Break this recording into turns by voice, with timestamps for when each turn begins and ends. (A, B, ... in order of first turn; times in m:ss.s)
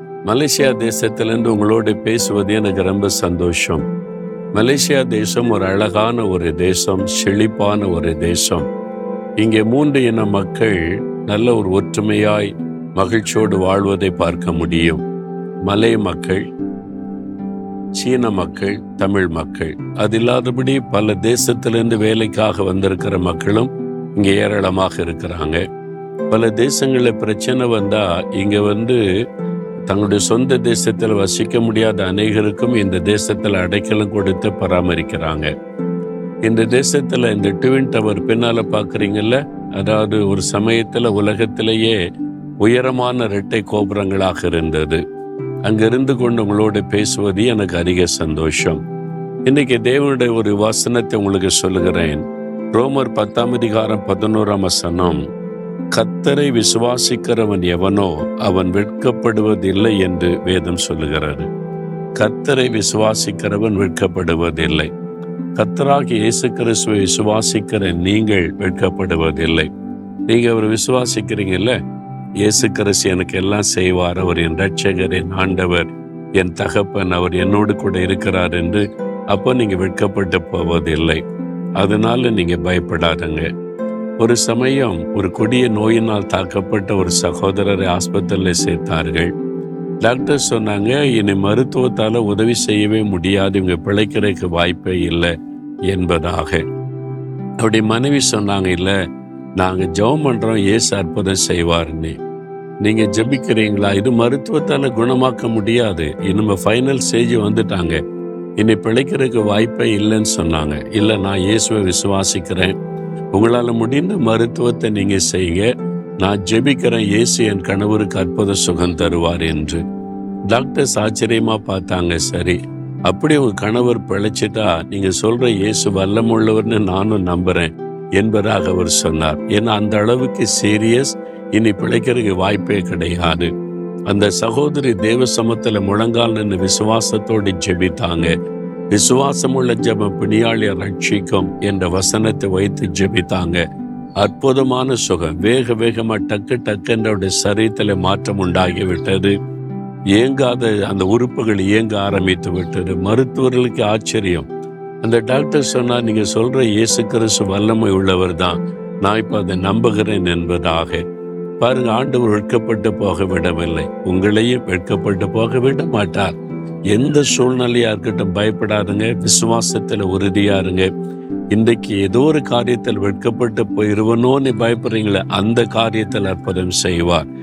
0:00.2-0:03.8 A
0:04.5-0:08.6 A
0:09.4-0:15.0 A
0:15.6-0:16.4 A
0:18.0-0:25.6 A
0:26.3-0:29.0 A
0:29.9-0:35.5 A
0:36.4-0:42.0 A
0:42.6-0:45.0 A
0:45.6-0:48.8 A
0:49.4-0:52.2 A
0:52.7-0:55.2 A
0:55.9-1:01.5 A
1:02.2-1:04.9 A
1:05.6-1:09.7 A
1:10.3-1:11.8 A
1:12.4-1:21.2 A
1:21.8-1:23.5 A
1:24.2-1:29.3 A
1:30.0-1:35.3 A
1:35.9-1:36.6 A
1:37.6-1:39.0 A
1:39.6-1:42.2 A
1:42.8-1:48.0 A
1:48.6-1:52.7 A
1:53.3-1:55.7 A
1:56.2-1:59.8 A
2:00.5-2:02.6 A
2:03.1-2:13.5 A
2:14.1-2:18.3 A
2:18.9-2:23.6 A
2:24.2-2:29.3 A
2:30.2-2:34.5 A
2:35.0-2:41.0 A
2:41.6-2:46.3 A
2:46.9-2:50.9 A
2:51.5-2:57.2 A